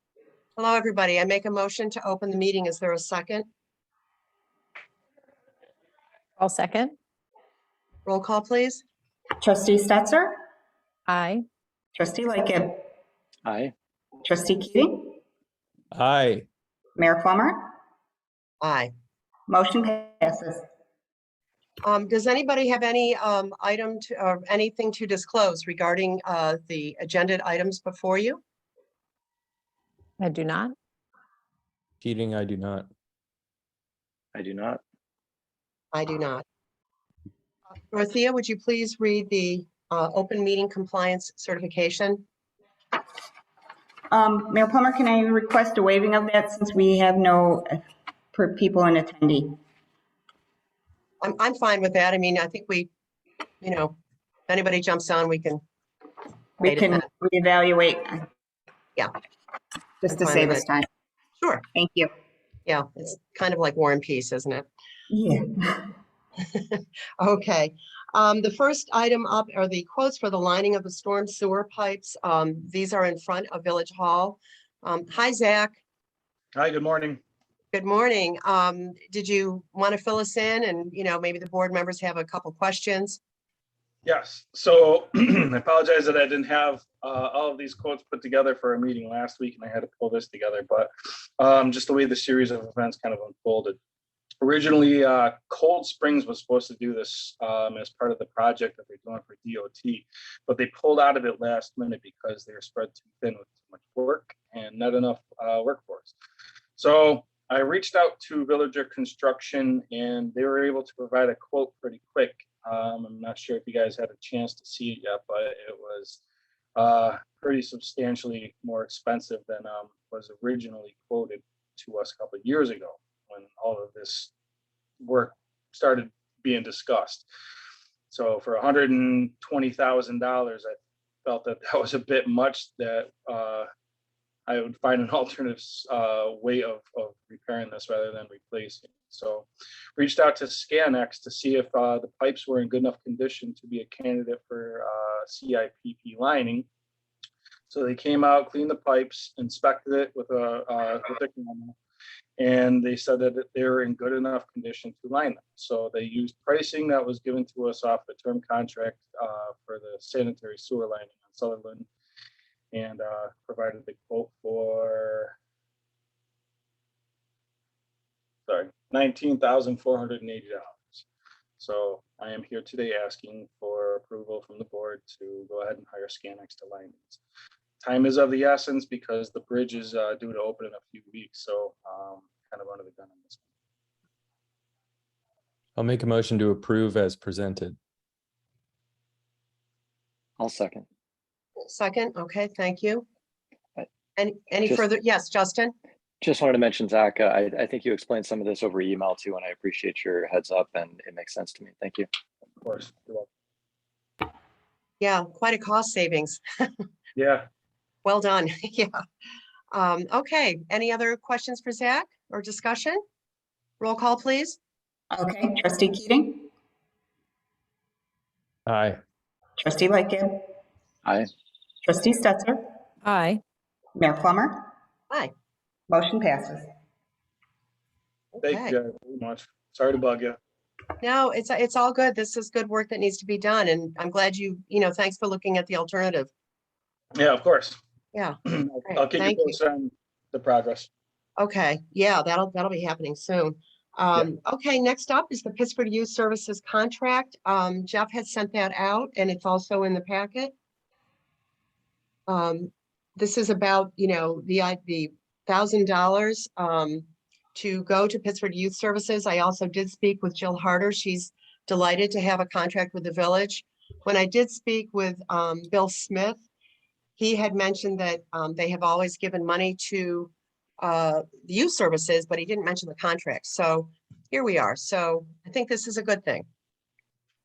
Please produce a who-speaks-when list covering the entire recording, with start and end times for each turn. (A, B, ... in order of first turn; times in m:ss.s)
0:00.6-0:03.5 A
0:06.4-0:07.0 B
0:08.0-0:08.8 A
0:09.4-0:10.4 C
0:11.1-0:11.4 B
0:12.0-0:12.9 C
0:13.4-0:13.7 D
0:14.2-0:15.2 C
0:15.9-0:16.5 E
0:17.0-0:17.6 C
0:18.6-0:18.9 A
0:19.5-0:20.6 C
0:21.8-0:28.4 A
0:30.2-0:30.7 B
0:32.0-0:32.9 E
0:34.4-0:34.8 D
0:35.9-0:36.4 A
0:37.9-0:42.2 A
0:44.1-0:49.6 C
0:51.2-0:52.9 A
0:53.6-0:54.0 A
0:54.5-0:55.6 A
0:56.6-0:58.2 C
0:56.6-0:57.0 A
1:00.0-1:00.9 C
1:00.1-1:00.7 A
1:01.7-1:02.1 C
1:02.7-1:04.7 A
1:05.1-1:05.9 C
1:06.5-1:15.8 A
1:16.5-1:17.2 F
1:17.7-1:23.2 A
1:24.0-1:33.8 F
1:34.4-1:46.1 F
1:46.8-1:56.2 F
1:56.8-2:04.3 F
2:05.0-2:07.2 F
2:08.1-2:13.7 F
2:14.5-2:26.7 F
2:27.7-2:31.8 F
2:32.4-2:41.9 F
2:42.7-2:45.3 F
2:48.5-2:51.0 F
2:51.6-2:57.2 F
2:57.8-3:03.4 F
3:05.8-3:07.8 E
3:10.4-3:10.8 D
3:11.7-3:13.1 A
3:14.2-3:15.7 A
3:16.2-3:22.1 D
3:22.6-3:23.3 F
3:25.0-3:26.4 A
3:27.2-3:27.5 F
3:28.0-3:29.0 A
3:29.7-3:33.0 A
3:33.8-3:34.6 A
3:35.1-3:36.5 C
3:38.7-3:39.0 E
3:39.6-3:40.4 C
3:41.8-3:42.6 C
3:43.0-3:43.4 B
3:44.0-3:44.7 C
3:45.9-3:46.7 C
3:48.4-3:48.8 A
3:48.4-3:50.4 F
3:51.0-3:56.3 A
3:57.2-3:57.8 F
3:58.1-3:59.6 A
3:58.4-4:00.9 F
4:01.4-4:10.5 A
4:12.3-4:26.4 A
4:27.2-4:36.5 A